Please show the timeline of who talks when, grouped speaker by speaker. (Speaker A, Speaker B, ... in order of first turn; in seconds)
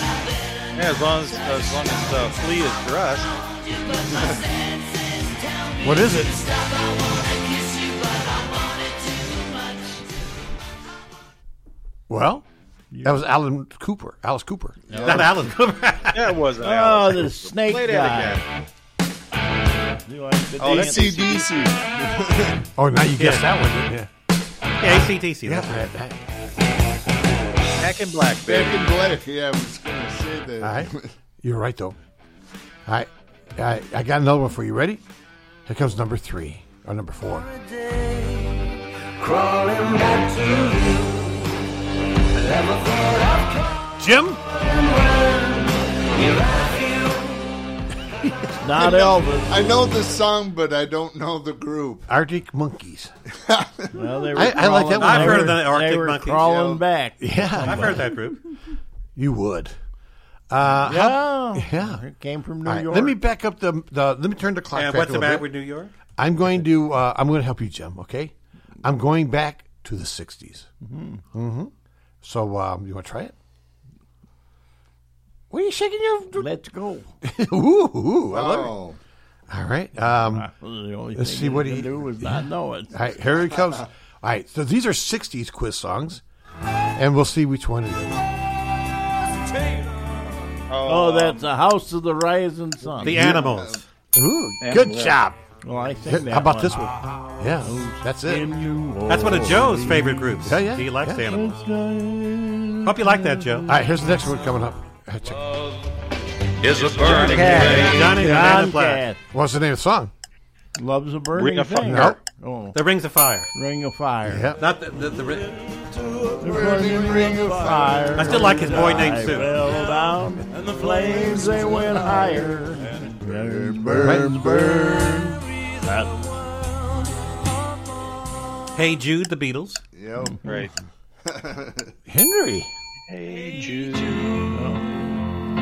Speaker A: 0.7-3.3, 16.1-18.4, 20.6-21.1, 27.8-28.8, 90.7-91.5, 94.6-95.2, 106.6-108.1, 111.3-112.2, 130.4-130.7, 133.1-134.2
Speaker B: 5.8-6.4, 12.1-12.4, 13.0-14.8, 22.8-24.1, 24.8-26.2, 30.6-32.0, 32.9-35.0, 35.6-37.5, 44.0-44.4, 52.1-53.1, 54.3-55.6, 57.2-58.0, 59.1-59.8, 60.5-62.0, 62.6-65.5, 66.2-70.7, 71.3-71.7, 72.2-73.3, 75.5-76.5, 77.2-78.7, 79.5-80.5, 81.1-86.2, 87.0-88.2, 93.1-93.5, 94.1-95.4, 96.0-98.5, 100.4-101.3, 103.7-105.4, 107.4-108.6, 109.3-110.1, 111.8-112.2, 114.2-114.6, 124.0-124.3, 132.1-132.7
Speaker C: 12.9-13.2, 14.9-15.2, 16.6-18.4, 20.1-21.4, 48.6-49.7, 53.9-58.1, 60.9-63.2, 70.8-71.2, 76.3-77.1, 80.0-82.9, 90.8-93.3, 95.6-96.9, 97.6-100.4, 101.2-103.7, 107.1-109.2, 110.8-112.7, 113.5-114.5, 116.4-125.2, 130.2-130.7, 134.5-134.9
Speaker D: 14.9-15.3, 20.6-22.6, 28.4-31.1, 48.8-52.1, 53.5-54.0, 56.4-56.8, 78.3-79.0, 93.0-93.8, 116.4-118.7, 121.5-122.5, 123.2-125.4, 129.9-130.4, 131.2-131.9
Speaker E: 15.0-16.3, 23.2-23.4, 24.8-26.0, 55.0-56.5, 57.6-58.4, 64.7-65.9, 93.0-93.8, 99.1-101.7, 102.8-103.7, 107.0-109.0, 112.7-113.5, 114.6-115.6, 118.1-119.5, 128.7-129.8
Speaker F: 37.4-41.5, 42.3-43.8, 44.6-47.4, 119.7-120.0, 120.6-121.1, 125.4-128.1, 133.3-134.8